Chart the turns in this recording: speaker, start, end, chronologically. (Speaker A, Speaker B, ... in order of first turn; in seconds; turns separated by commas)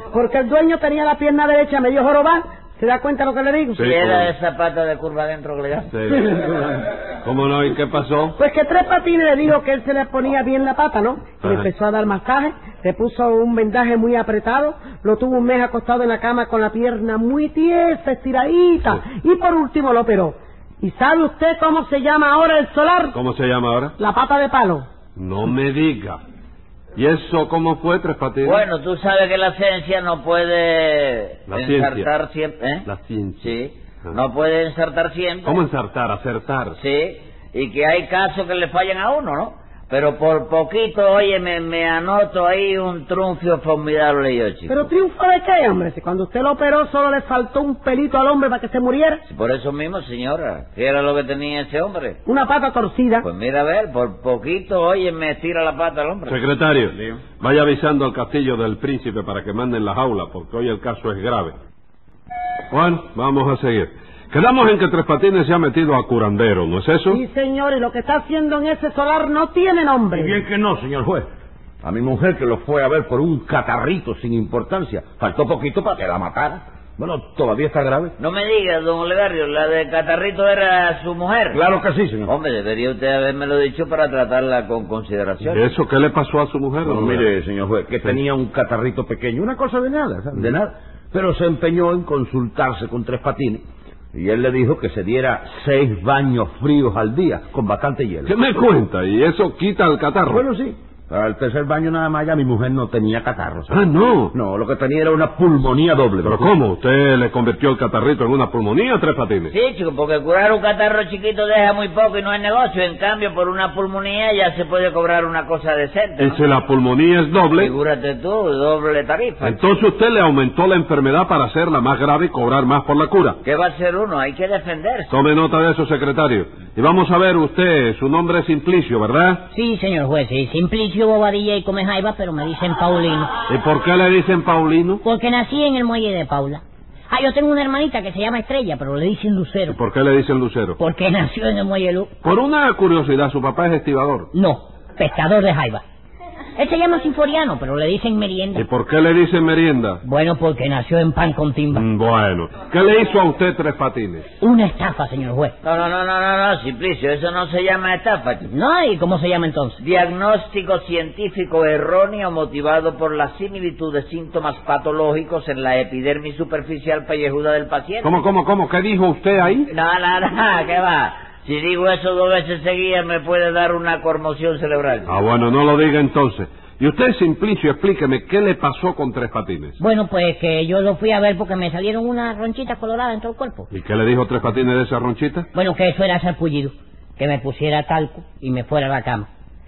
Speaker A: 0.1-3.8, Speaker B: 3.7-4.3, Speaker C: 3.8-6.7, Speaker B: 5.9-6.2, Speaker B: 7.2-8.4, Speaker A: 8.4-23.1, Speaker B: 11.4-11.7, Speaker B: 23.1-23.9, Speaker A: 24.0-24.9, Speaker B: 25.1-26.2, Speaker B: 26.9-28.6, Speaker C: 28.4-32.9, Speaker B: 31.5-32.1, Speaker B: 32.9-34.1, Speaker C: 33.4-35.6, Speaker B: 35.4-36.8, Speaker C: 36.8-44.8, Speaker A: 44.7-49.2, Speaker C: 49.2-52.2, Speaker A: 52.2-53.3, Speaker C: 53.2-56.4, Speaker B: 56.2-61.5, Speaker B: 62.7-67.2, Speaker A: 67.1-70.4, Speaker D: 70.1-71.2, Speaker D: 71.8-78.1, Speaker C: 78.2-81.6, Speaker D: 81.5-82.3, Speaker C: 82.3-85.7, Speaker B: 85.4-87.3, Speaker D: 86.8-93.6, Speaker D: 94.1-98.3, Speaker B: 98.2-100.4, Speaker D: 100.3-103.8, Speaker B: 103.7-104.3, Speaker D: 104.3-106.5, Speaker B: 106.2-109.5, Speaker C: 109.5-116.4, Speaker B: 116.2-117.7, Speaker C: 117.5-119.7, Speaker B: 119.4-123.4, Speaker C: 123.4-125.1, Speaker B: 125.1-129.5, Speaker E: 129.5-133.3, Speaker B: 133.5-135.0, Speaker E: 135.0-139.8, Speaker B: 139.7-140.8, Speaker E: 140.8-142.1, Speaker B: 142.2-144.3, Speaker E: 144.3-145.8, Speaker E: 146.6-148.6, Speaker B: 148.5-150.0, Speaker E: 150.0-151.8, Speaker B: 151.7-154.2, Speaker E: 154.4-155.5, Speaker C: 155.6-158.5, Speaker E: 158.5-159.8, Speaker C: 159.8-168.2, Speaker B: 168.0-169.7, Speaker C: 169.7-175.2, Speaker B: 175.1-179.8, Speaker E: 179.8-183.7, Speaker B: 183.7-185.5, Speaker E: 185.5-189.3